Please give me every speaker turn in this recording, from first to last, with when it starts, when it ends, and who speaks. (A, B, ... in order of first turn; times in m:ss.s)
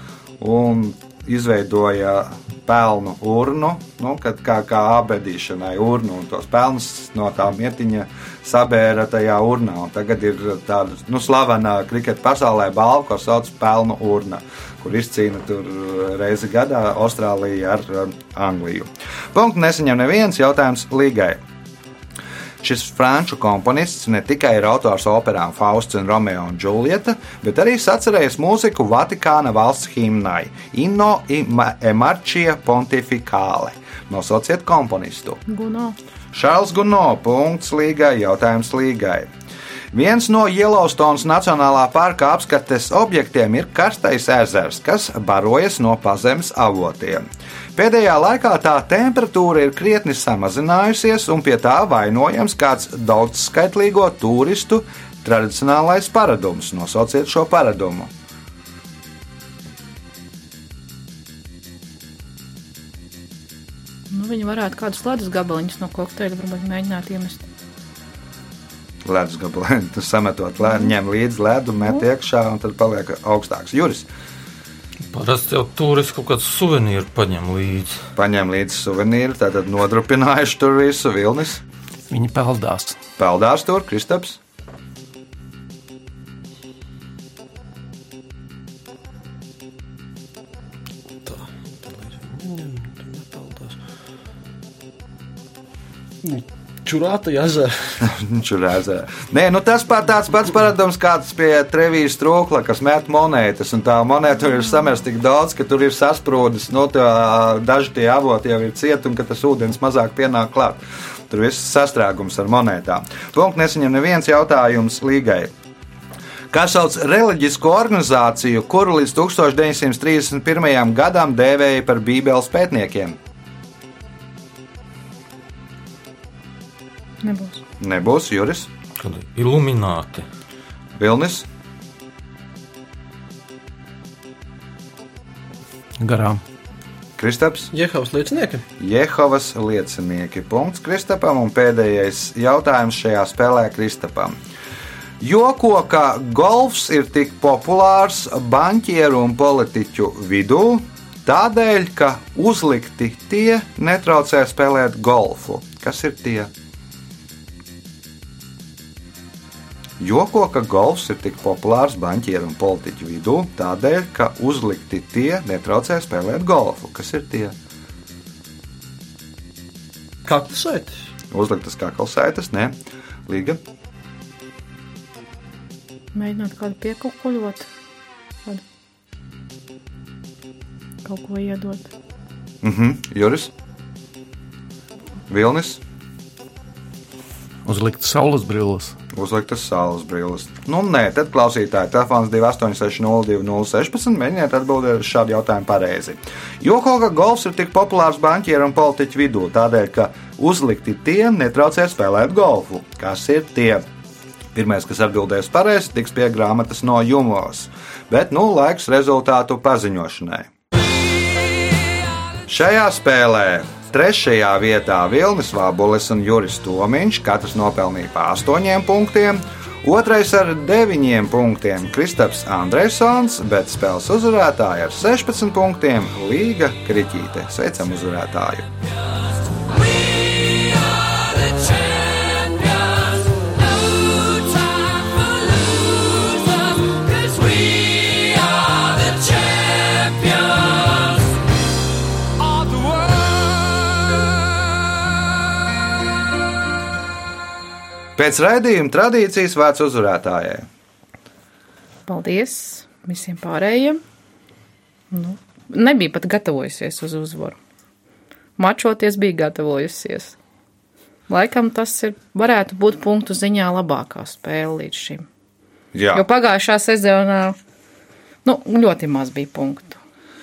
0:00.4-0:21.4 A
0:22.6-0:35.4 A
0:35.5-0:36.0 B
0:36.3-0:39.3 A
0:39.9-0:58.1 A
1:04.1-1:07.4 B
1:09.0-1:14.1 A
1:10.7-1:10.9 B
1:15.1-1:18.0 C
1:18.2-1:21.6 A
1:22.1-1:23.0 D
1:23.2-1:24.4 A
1:31.2-1:33.8 E
1:36.2-1:37.8 E
1:38.0-1:55.5 A
1:56.5-2:03.2 A
2:07.2-2:07.6 B
2:07.8-2:08.7 A
2:09.0-2:10.3 C
2:11.0-2:11.5 A
2:16.0-2:16.4 D
2:17.2-2:17.7 A
2:17.7-2:18.6 E
2:18.8-2:24.4 A
2:25.2-2:36.5 A
2:40.0-2:47.6 A
2:50.2-2:51.1 E
2:51.3-2:52.8 A
2:53.3-2:53.6 A
2:56.1-2:57.7 B
3:01.0-3:01.9 B
3:02.6-3:03.5 A
3:05.3-3:05.8 A
3:07.6-3:09.0 D
3:09.1-3:23.8 A
3:24.5-3:30.5 A
3:32.5-3:48.7 A
3:58.0-3:58.4 C
4:08.2-4:10.7 A
4:12.1-4:14.0 B
4:15.1-4:17.6 B
4:18.6-4:20.4 B
4:21.3-4:25.2 B
4:25.9-4:26.2 A
4:26.1-4:27.6 B
4:28.4-4:30.0 B